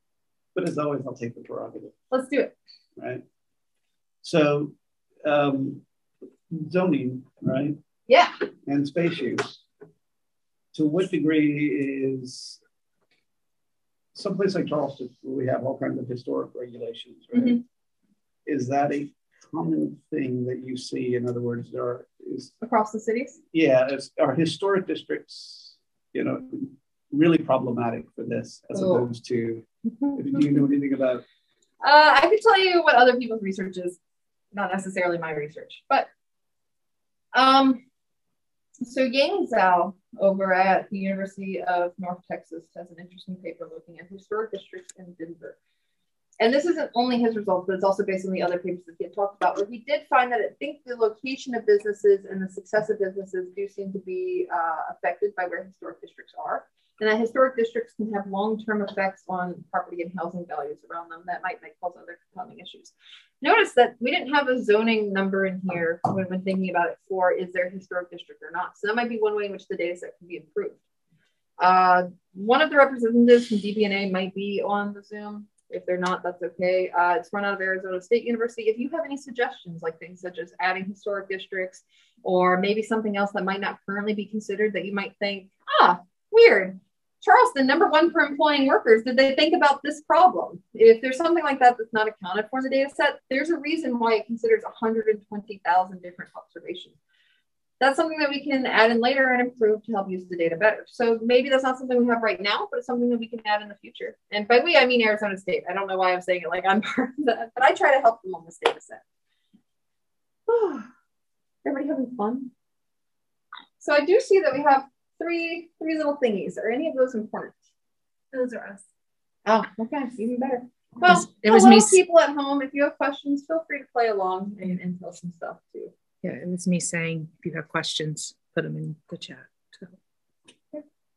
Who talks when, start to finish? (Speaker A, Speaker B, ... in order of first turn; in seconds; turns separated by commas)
Speaker A: 0.5-1.9, Speaker B: 2.1-2.5, Speaker A: 3.0-3.2, Speaker A: 4.2-5.8, Speaker A: 6.5-7.8, Speaker B: 8.1-8.3, Speaker A: 8.7-9.6, Speaker A: 10.7-12.6, Speaker A: 14.1-17.6, Speaker B: 17.3-17.6, Speaker A: 18.4-22.5, Speaker B: 22.6-23.4, Speaker A: 23.5-31.2, Speaker B: 28.7-29.1, Speaker B: 31.8-34.0, Speaker B: 34.5-36.1, Speaker B: 37.3-37.8, Speaker B: 38.8-45.5, Speaker B: 46.4-70.8, Speaker B: 71.6-97.0, Speaker B: 97.8-109.0, Speaker B: 110.5-110.9, Speaker B: 111.6-112.5, Speaker B: 113.8-117.5, Speaker C: 118.3-118.8, Speaker B: 119.5-125.9, Speaker C: 121.0-122.0, Speaker C: 126.2-129.9